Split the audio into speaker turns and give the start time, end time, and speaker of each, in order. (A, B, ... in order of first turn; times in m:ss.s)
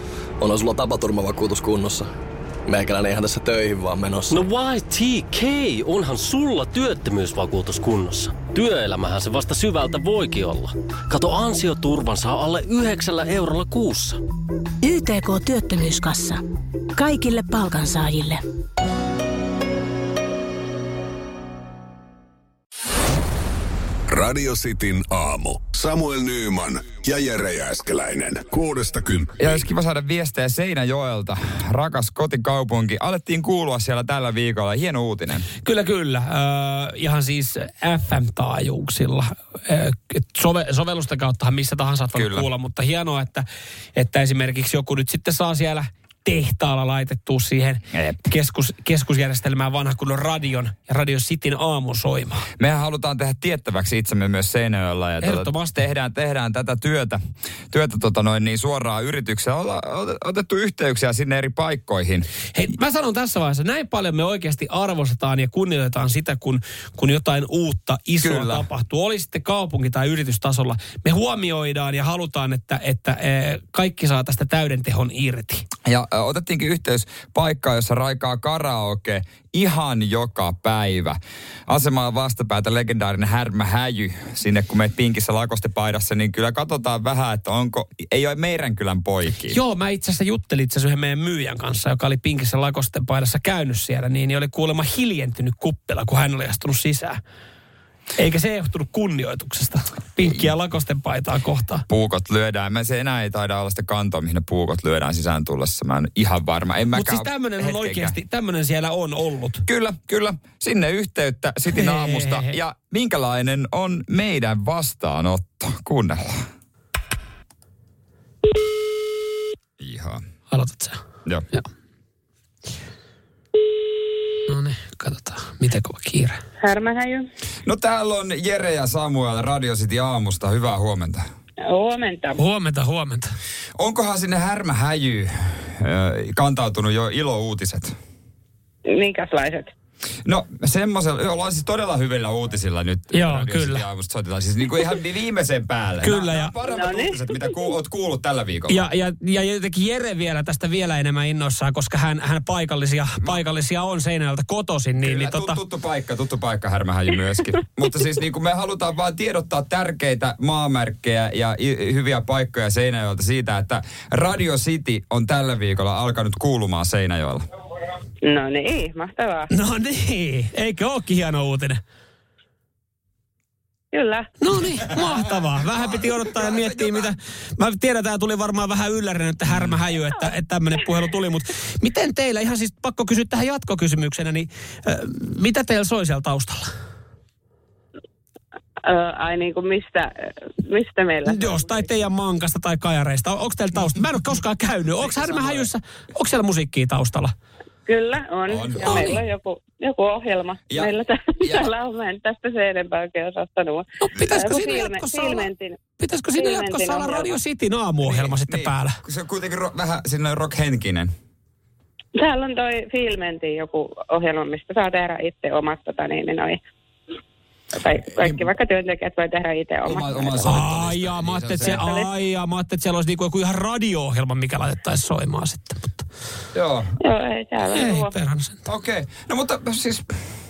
0:00.4-0:02.1 A
0:02.7-0:04.5 A
0:04.3-0:14.2 B
0:14.8-0:16.4 C
0:17.0-0:18.4 C
0:24.1-0:29.6 D
0:29.4-0:35.5 E
0:35.6-0:52.4 F
0:42.1-0:42.5 E
0:47.9-0:48.2 E
0:52.6-0:57.2 E
0:55.2-0:55.8 F
0:57.7-1:02.3 E
1:02.5-1:15.7 F
1:08.2-1:08.7 E
1:15.9-1:29.6 E
1:29.5-1:37.2 F
1:38.2-1:41.8 F
1:40.2-1:40.5 E
1:41.9-1:48.2 E
1:46.9-1:49.6 F
1:49.7-1:56.4 E
1:51.8-1:52.5 F
1:59.8-2:00.2 E
2:00.5-2:01.0 F
2:04.5-2:06.4 F
2:06.6-2:07.2 G
2:07.7-2:11.2 E
2:11.7-2:12.4 G
2:12.4-2:13.3 F
2:13.8-2:18.0 E
2:18.9-2:19.7 G
2:20.3-2:28.9 E
2:23.1-2:23.8 F
2:26.0-2:26.5 F
2:26.7-2:27.3 G
2:28.7-2:35.6 F
2:35.0-2:47.5 E
2:48.2-2:49.5 G
2:49.5-2:51.8 F
2:53.9-2:54.3 G
2:54.4-3:06.7 F
2:55.8-2:57.1 E
2:59.5-2:59.8 E
3:08.9-3:12.0 G
3:11.2-3:17.3 F
3:15.0-3:15.7 E
3:17.9-3:25.8 G
3:18.5-3:19.1 E
3:18.9-3:19.2 F
3:20.7-3:21.7 E
3:24.0-3:29.0 F
3:26.4-3:27.3 G
3:28.0-3:31.1 E
3:32.2-3:36.6 G
3:37.7-3:40.6 G
3:38.2-3:38.4 E
3:39.9-3:41.8 E
3:40.5-3:46.0 F
3:41.6-3:42.1 G
3:46.5-3:46.9 E
3:47.0-3:48.1 G
3:47.7-3:48.6 F
3:48.7-3:50.1 E